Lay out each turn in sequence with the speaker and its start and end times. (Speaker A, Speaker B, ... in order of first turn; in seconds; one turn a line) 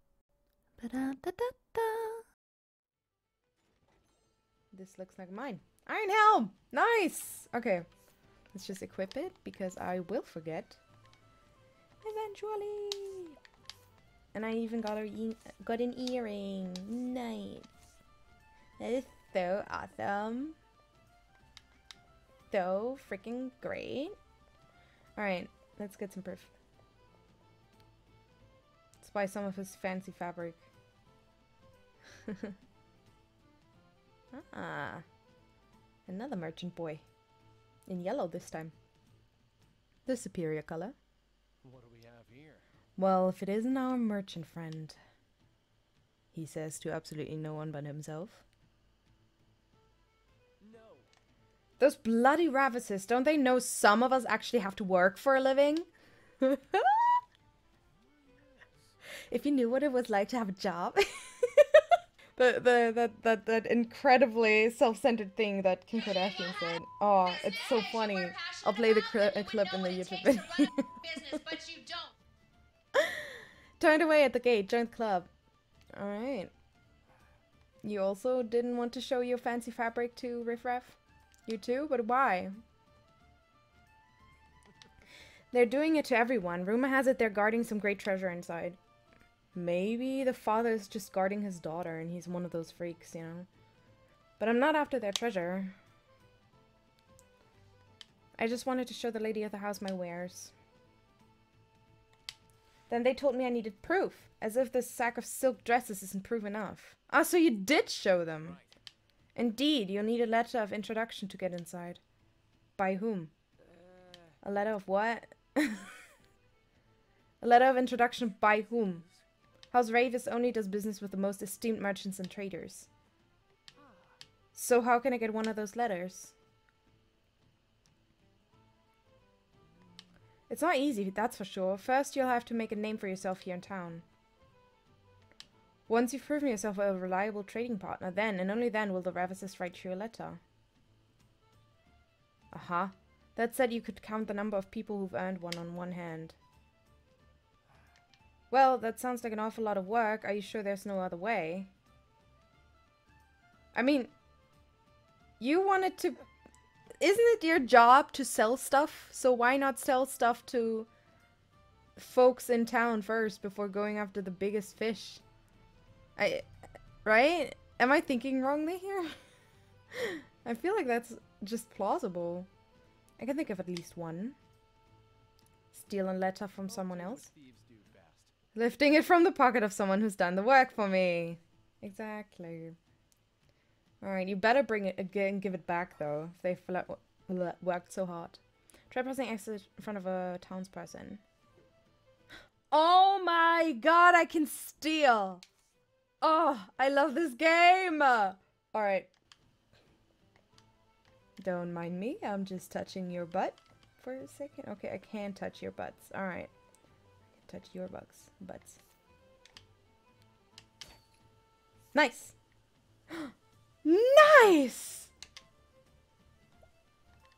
Speaker A: 0.8-2.2
Speaker A: 4.7-7.8
Speaker A: 8.5-10.8
Speaker A: 12.0-13.4
Speaker A: 14.3-17.7
Speaker A: 18.8-20.6
Speaker A: 22.5-24.1
Speaker A: 25.1-26.5
Speaker A: 29.0-30.7
Speaker A: 32.3-32.5
Speaker A: 34.3-35.0
Speaker A: 36.0-37.0
Speaker A: 37.9-38.7
Speaker A: 40.0-41.0
Speaker B: 41.6-42.6
Speaker A: 43.0-45.0
Speaker A: 46.3-48.4
Speaker B: 50.6-51.1
Speaker A: 51.8-55.9
Speaker A: 56.4-57.1
Speaker B: 58.0-58.9
Speaker A: 59.3-71.6
Speaker C: 67.4-72.2
Speaker A: 72.9-75.3
Speaker A: 75.9-76.5
Speaker A: 77.8-82.6
Speaker A: 85.5-88.8
Speaker A: 89.5-93.5
Speaker A: 94.4-95.7
Speaker A: 98.4-100.5
Speaker A: 102.9-108.6
Speaker B: 108.4-108.7
Speaker A: 109.3-112.0
Speaker A: 112.8-113.3
Speaker B: 113.7-114.3
Speaker A: 114.4-116.0
Speaker A: 117.4-119.0
Speaker A: 119.7-122.9
Speaker B: 123.8-124.2
Speaker A: 124.5-126.3
Speaker A: 130.5-134.0
Speaker A: 135.9-140.4
Speaker A: 142.5-146.4
Speaker A: 148.5-151.7
Speaker A: 153.7-154.1
Speaker A: 155.4-156.2
Speaker A: 157.0-160.9
Speaker A: 161.9-165.2
Speaker A: 166.2-166.5
Speaker A: 167.0-169.1
Speaker A: 169.9-172.5
Speaker A: 173.2-174.4
Speaker A: 175.7-177.3
Speaker B: 176.7-178.3
Speaker A: 178.5-182.8
Speaker A: 184.0-191.2
Speaker A: 192.7-195.4
Speaker A: 196.2-199.1
Speaker A: 201.4-206.5
Speaker A: 207.4-208.8
Speaker A: 211.9-212.3
Speaker A: 213.1-215.1